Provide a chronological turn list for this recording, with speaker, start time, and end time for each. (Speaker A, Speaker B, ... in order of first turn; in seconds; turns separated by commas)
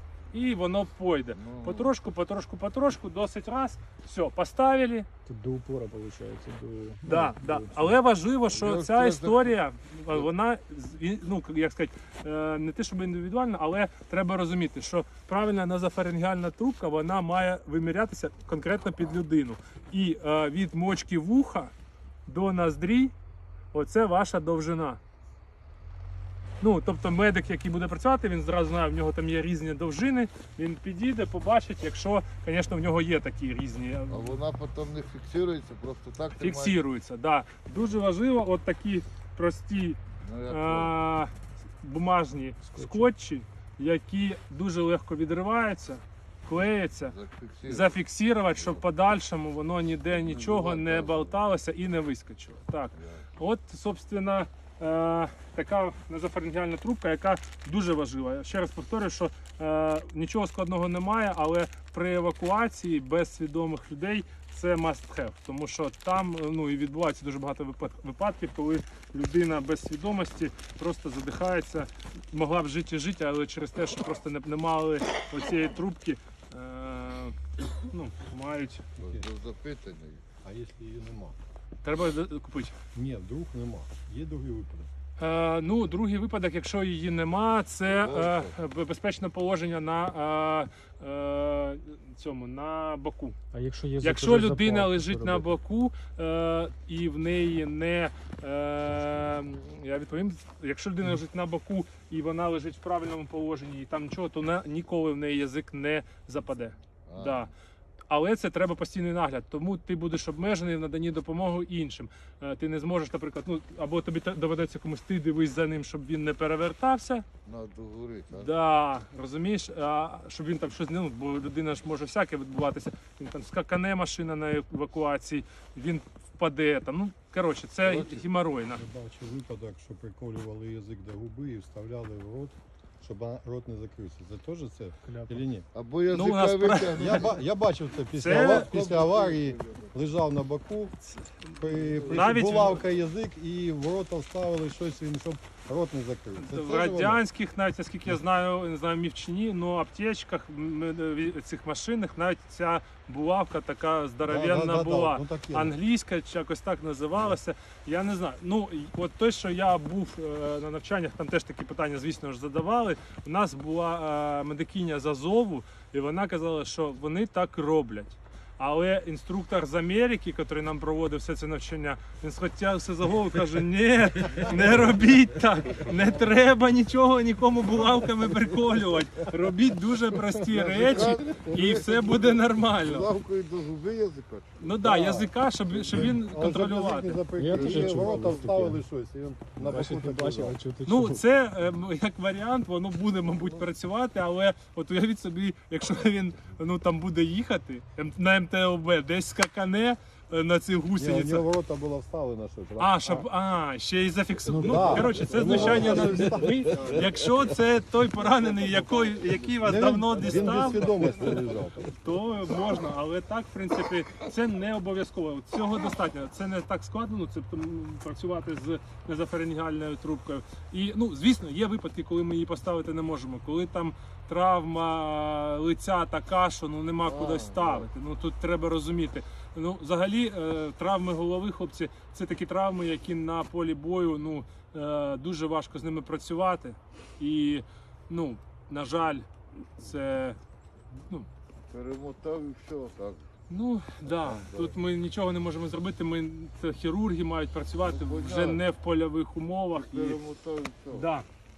Speaker A: 0.3-5.1, Speaker B: 1.4-1.9, Speaker C: 5.3-7.9, Speaker A: 7.1-21.7, Speaker B: 8.5-9.6, Speaker A: 22.3-23.1, Speaker A: 23.7-25.0, Speaker A: 26.6-34.4, Speaker B: 34.1-36.8, Speaker A: 36.4-47.1, Speaker B: 40.2-40.9, Speaker C: 42.8-43.1, Speaker B: 47.0-48.0, Speaker A: 47.7-77.4, Speaker B: 48.6-48.9, Speaker B: 50.1-51.4, Speaker B: 53.0-53.3, Speaker A: 77.9-78.9, Speaker B: 79.0-80.2, Speaker D: 79.0-79.3, Speaker D: 80.4-81.4, Speaker A: 81.8-82.8, Speaker D: 82.9-84.9, Speaker A: 85.2-93.4, Speaker B: 87.9-88.5, Speaker C: 93.5-95.5, Speaker A: 94.0-107.5, Speaker B: 107.1-107.5, Speaker A: 108.1-117.2, Speaker B: 117.5-118.5, Speaker A: 118.3-128.8, Speaker B: 127.8-128.2, Speaker D: 128.7-135.7, Speaker C: 135.1-135.4, Speaker B: 135.7-137.4, Speaker A: 136.1-137.3, Speaker D: 136.9-141.0, Speaker A: 138.1-138.7, Speaker B: 138.2-139.9, Speaker A: 141.2-142.8, Speaker D: 141.5-147.2, Speaker B: 141.8-142.3, Speaker A: 146.4-183.1, Speaker D: 154.2-155.8, Speaker D: 178.0-178.6, Speaker B: 180.5-186.9, Speaker D: 180.8-181.3, Speaker A: 184.6-187.2, Speaker D: 184.8-185.3, Speaker D: 185.9-190.6, Speaker C: 187.4-188.8, Speaker B: 187.5-188.2, Speaker C: 189.6-191.2, Speaker A: 190.9-201.5, Speaker D: 201.0-203.3, Speaker A: 202.8-211.4, Speaker D: 204.5-207.2, Speaker C: 204.6-206.7, Speaker B: 208.4-210.9, Speaker D: 209.6-212.0, Speaker A: 212.0-240.4, Speaker B: 227.0-227.9, Speaker A: 240.9-241.3, Speaker B: 241.7-243.3, Speaker A: 243.5-250.2, Speaker B: 244.1-244.8, Speaker B: 247.8-248.6, Speaker B: 249.7-251.1, Speaker A: 250.9-251.3